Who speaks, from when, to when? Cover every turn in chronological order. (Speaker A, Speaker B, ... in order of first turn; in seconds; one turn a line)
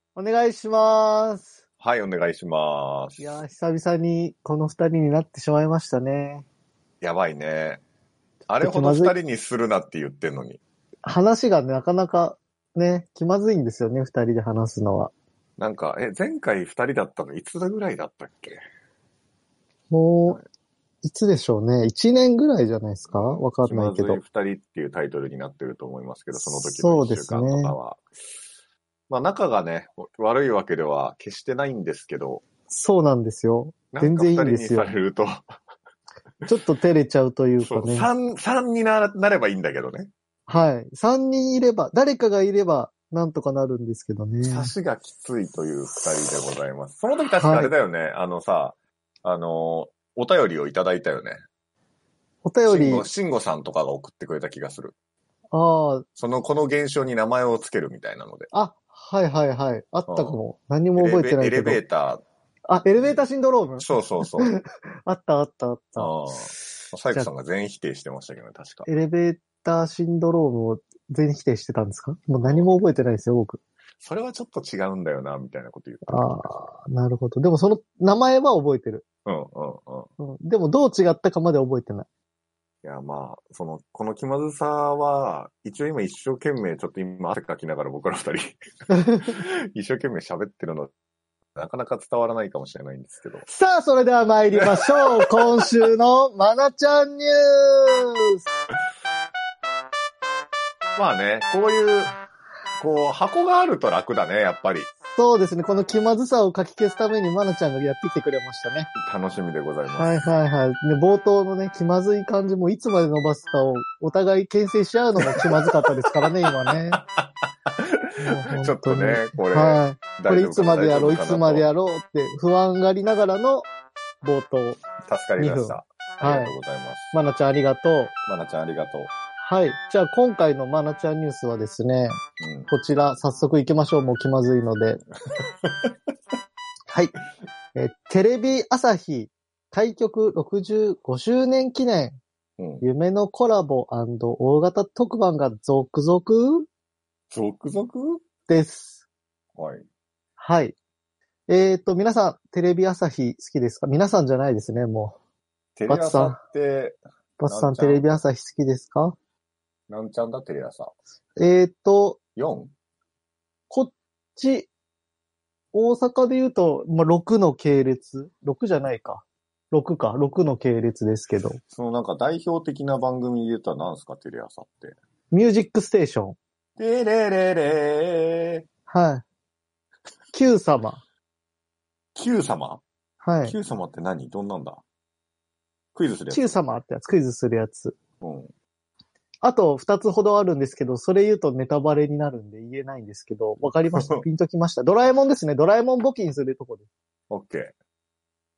Speaker A: 0.2-1.6
Speaker B: 1.8-3.4
Speaker A: 3.2-6.5
Speaker B: 7.0-7.8
Speaker B: 8.5-10.6
Speaker A: 8.6-9.2
Speaker A: 11.0-15.1
Speaker B: 15.6-18.6
Speaker A: 19.9-20.4
Speaker A: 21.0-24.2
Speaker B: 23.1-28.0
Speaker A: 26.3-27.8
Speaker B: 29.1-32.4
Speaker A: 32.7-35.0
Speaker B: 33.9-35.5
Speaker A: 36.4-38.1
Speaker B: 37.6-40.1
Speaker A: 40.5-44.7
Speaker B: 44.4-51.4
Speaker A: 47.4-47.7
Speaker A: 52.4-53.1
Speaker B: 52.7-54.9
Speaker A: 55.5-56.0
Speaker B: 56.2-58.5
Speaker A: 58.5-61.8
Speaker B: 60.1-60.4
Speaker B: 61.0-62.2
Speaker A: 62.7-67.3
Speaker B: 63.8-64.5
Speaker B: 66.0-68.9
Speaker A: 68.9-73.6
Speaker B: 72.4-72.7
Speaker B: 74.0-76.7
Speaker A: 76.1-79.0
Speaker B: 79.3-80.1
Speaker A: 80.2-82.1
Speaker B: 82.8-88.6
Speaker A: 88.9-89.4
Speaker B: 89.2-90.9
Speaker B: 91.5-93.5
Speaker A: 93.5-98.4
Speaker B: 94.5-95.7
Speaker B: 101.0-102.1
Speaker B: 102.8-104.9
Speaker A: 105.2-108.9
Speaker B: 109.0-110.2
Speaker A: 109.9-117.0
Speaker B: 115.2-121.7
Speaker A: 118.2-123.7
Speaker A: 124.2-124.8
Speaker B: 125.0-127.1
Speaker A: 125.4-126.5
Speaker A: 127.1-128.1
Speaker B: 128.3-129.1
Speaker A: 129.4-135.0
Speaker B: 132.4-132.7
Speaker B: 135.3-135.9
Speaker A: 136.9-137.2
Speaker A: 137.8-142.2
Speaker B: 142.6-142.8
Speaker A: 142.8-146.7
Speaker B: 147.3-148.2
Speaker A: 148.5-149.0
Speaker B: 149.6-149.9
Speaker A: 150.4-150.8
Speaker A: 151.5-155.2
Speaker B: 155.8-158.1
Speaker A: 155.9-156.4
Speaker A: 157.4-159.2
Speaker B: 159.9-160.9
Speaker A: 161.4-162.2
Speaker B: 162.4-162.7
Speaker A: 163.7-164.7
Speaker A: 165.7-171.6
Speaker B: 171.6-175.0
Speaker A: 175.3-176.4
Speaker B: 176.8-178.7
Speaker A: 178.9-179.2
Speaker A: 180.3-181.0
Speaker B: 182.2-182.8
Speaker A: 183.2-183.6
Speaker B: 183.4-184.8
Speaker B: 185.9-186.6
Speaker A: 186.3-188.0
Speaker B: 188.2-188.5
Speaker A: 189.4-196.9
Speaker B: 193.9-194.2
Speaker B: 197.3-197.7